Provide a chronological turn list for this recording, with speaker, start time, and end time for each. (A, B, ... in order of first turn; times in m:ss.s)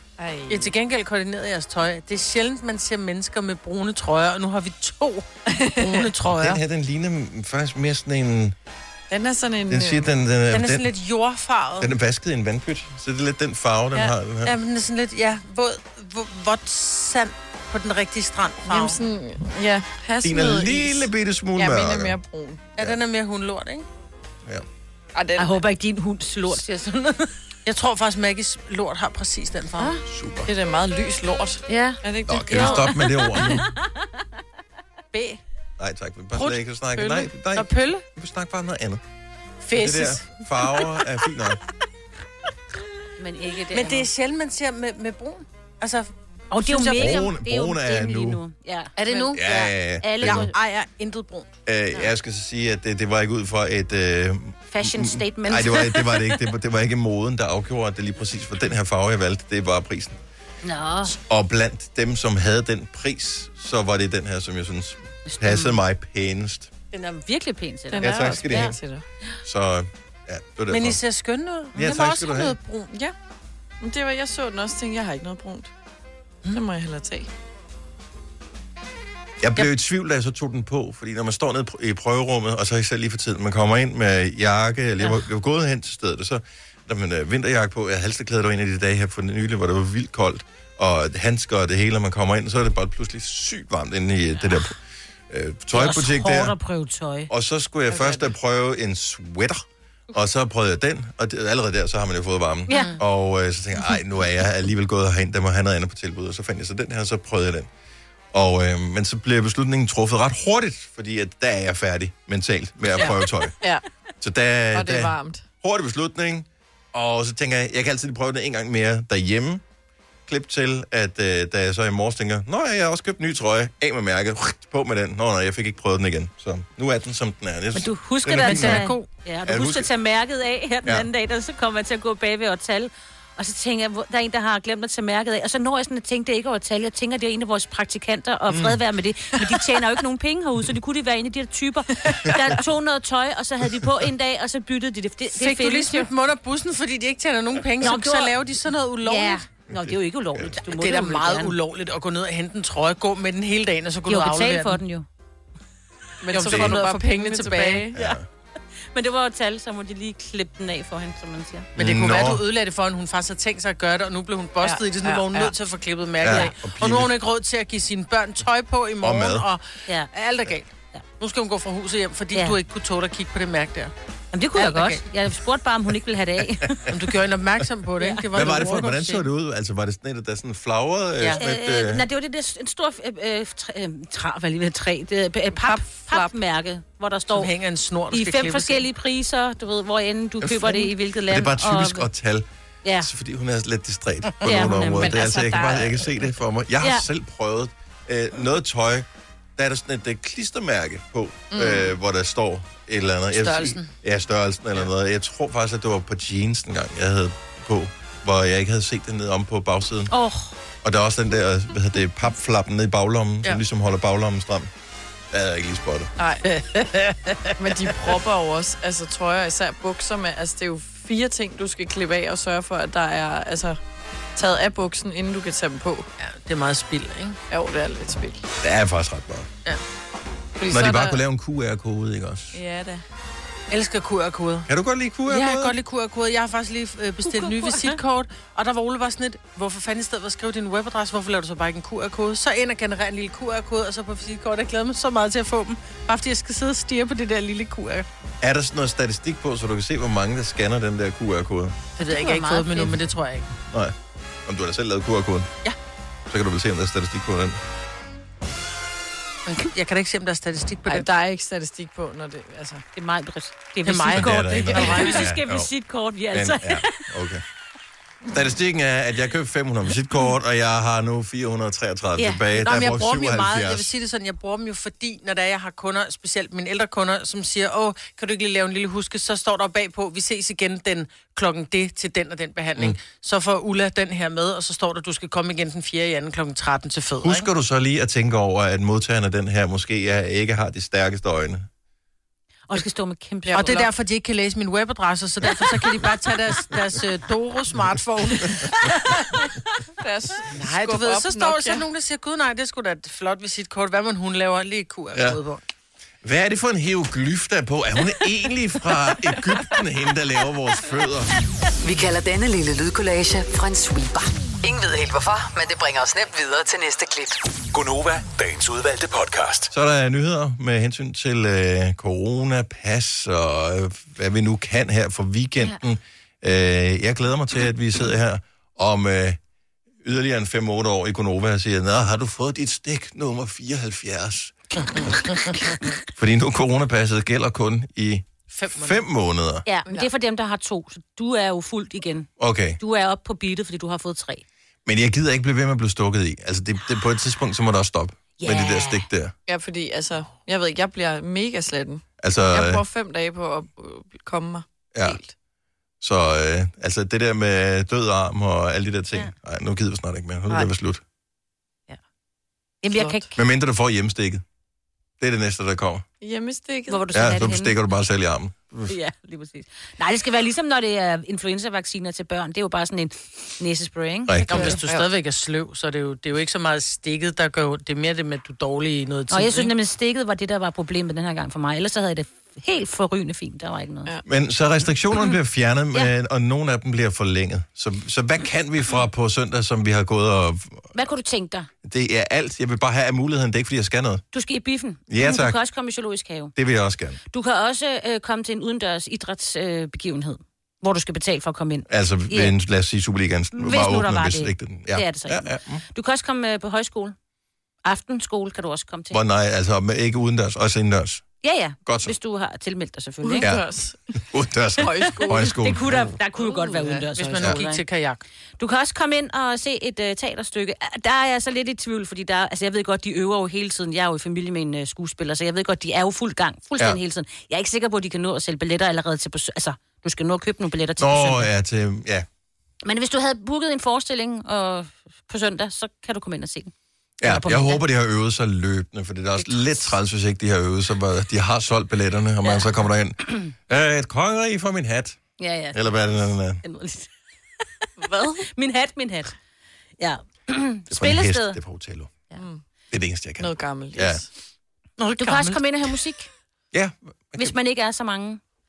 0:00.2-0:00.7 A
0:00.5-0:06.6 B
0:05.5-0:06.1 A
0:06.3-0:08.6 C
0:09.1-0:10.1 A
0:09.7-0:10.9 C
0:10.5-0:11.9 B
0:11.8-0:14.6 C
0:14.4-0:19.0 B
0:18.6-0:22.6 A
0:20.2-0:22.2 C
0:22.8-0:23.9 B
0:25.2-0:25.6 A
0:25.4-0:27.3 D
0:27.6-0:30.0 B
0:30.1-0:30.5 C
0:30.5-0:33.5 A
0:31.7-0:32.0 D
0:32.3-0:33.7 C
0:32.5-0:32.8 D
0:35.1-0:35.4 B
0:35.8-0:39.0 C
0:36.4-0:38.0 B
0:39.6-0:40.3 B
0:39.7-0:41.6 C
0:43.2-0:44.1 D
0:43.7-0:47.3 B
0:46.5-0:50.5 D
0:46.9-0:48.4 C
0:49.0-0:49.4 B
0:49.3-0:50.5 C
0:50.2-0:51.5 B
0:51.7-1:00.2 C
0:54.7-0:56.4 D
1:00.6-1:01.1 D
1:01.0-1:06.7 C
1:05.3-1:05.8 D
1:06.9-1:08.7 D
1:07.9-1:09.0 A
1:08.0-1:08.8 C
1:09.4-1:11.0 C
1:10.7-1:12.9 B
1:11.8-1:12.6 C
1:13.8-1:15.7 A
1:16.5-1:17.3 A
1:19.4-1:34.8 C
1:35.3-1:36.6 C
1:35.7-1:37.3 D
1:37.3-1:47.7 C
1:37.9-1:38.3 A
1:42.7-1:43.0 D
1:42.7-1:43.0 B
1:48.3-1:53.5 C
1:53.0-1:53.8 A
1:54.2-1:59.6 C
1:54.7-1:55.4 A
2:00.3-2:08.9 C
2:07.7-2:26.1 D
2:08.5-2:09.1 B
2:09.5-2:09.9 C
2:18.5-2:18.8 C
2:25.4-2:29.4 B
2:27.8-2:28.3 D
2:29.0-2:31.6 D
2:29.7-2:30.6 C
2:30.7-2:34.8 B
2:34.1-2:35.1 D
2:36.2-2:37.9 A
2:36.3-2:37.9 B
2:36.5-2:36.8 C
2:37.9-2:38.3 C
2:38.9-2:41.7 D
2:41.8-2:42.4 C
2:41.8-2:53.9 B
2:44.6-2:45.5 A
2:46.2-2:47.1 C
2:49.0-2:49.5 C
2:54.3-2:56.9 D
2:54.6-2:55.0 B
2:56.9-2:59.3 B
2:58.0-2:58.2 D
2:58.3-3:02.1 C
3:01.4-3:07.5 D
3:05.5-3:06.3 A
3:07.3-3:08.8 B
3:08.1-3:12.1 D
3:10.4-3:12.5 C
3:13.0-3:30.1 C
3:14.4-3:15.5 D
3:14.6-3:16.1 A
3:21.5-3:22.0 A
3:23.6-3:23.8 B
3:30.1-3:30.6 D
3:30.8-3:34.7 C
3:35.3-3:36.1 C
3:36.2-3:36.6 A
3:36.6-3:37.5 B
3:37.6-3:43.8 A
3:44.4-3:46.1 A
3:46.2-3:47.4 B
3:47.5-3:48.4 A
3:48.6-3:49.5 C
3:50.6-3:51.2 A
3:50.7-3:52.6 C
3:52.5-3:53.0 A
3:53.7-3:54.7 B
3:54.7-3:55.8 C
3:55.3-4:08.1 B
3:57.2-3:58.0 D
4:08.4-4:11.8 C
4:12.0-4:13.5 B
4:12.0-4:13.0 D
4:13.7-4:14.0 C
4:14.5-4:15.6 C
4:16.3-4:17.6 C
4:19.5-4:21.1 B
4:20.9-4:22.8 A
4:23.0-4:27.0 D
4:23.8-4:25.3 B
4:24.1-4:25.7 C
4:26.3-4:27.4 C
4:28.3-4:33.9 C
4:32.2-4:32.5 D
4:32.5-4:47.5 B
4:47.2-4:51.7 C
4:52.7-4:53.9 D
4:53.5-4:59.2 B
5:00.0-5:01.9 A
5:00.5-5:05.6 B
5:06.2-5:11.3 C
5:11.8-5:17.4 E
5:17.7-5:19.7 F
5:19.7-5:29.4 C
5:30.0-5:35.1 C
5:36.1-5:39.6 C
5:38.5-5:39.0 B
5:39.6-5:44.4 D
5:42.4-5:42.8 C
5:44.9-5:49.3 C
5:48.4-5:49.1 D
5:49.5-5:55.3 A
5:52.2-5:52.8 C
5:54.9-5:55.2 C
5:56.0-6:01.0 C
6:02.8-6:03.3 D
6:02.9-6:03.3 A
6:03.4-6:04.4 C
6:05.2-6:06.0 C
6:06.2-6:07.1 A
6:06.9-6:07.8 D
6:07.1-6:08.9 C
6:08.9-6:14.8 D
6:14.3-6:14.7 C
6:14.5-6:19.7 B
6:14.6-6:15.1 A
6:19.3-6:24.1 D
6:24.3-6:30.9 C
6:30.9-6:31.7 D
6:31.8-6:34.2 C
6:34.3-6:36.5 D
6:35.1-6:35.6 C
6:36.6-6:37.2 C
6:37.3-6:42.5 D
6:41.9-6:45.8 C
6:43.5-6:47.2 D
6:47.8-6:49.2 D
6:49.1-6:51.2 C
6:51.4-6:53.5 D
6:51.9-6:52.2 C
6:53.2-6:54.1 A
6:53.4-6:53.7 C
6:54.3-6:56.2 C
6:54.8-6:55.6 A
6:55.4-6:57.8 D
6:56.4-6:58.2 B
6:58.6-7:11.5 D
7:11.0-7:12.3 C
7:12.8-7:16.7 D
7:17.2-7:23.2 C
7:17.2-7:17.8 D
7:19.4-7:19.9 D
7:22.4-7:22.7 D
7:23.7-7:25.2 C
7:25.4-7:26.0 D
7:25.7-7:26.6 C
7:26.6-7:27.1 D
7:28.0-7:29.4 D
7:30.0-7:31.6 D
7:30.9-7:32.2 C
7:32.4-7:32.6 A
7:32.9-7:34.2 C
7:33.4-7:34.3 A
7:35.0-7:35.6 B
7:35.2-7:36.3 D
7:36.7-7:37.6 C
7:37.4-7:38.4 D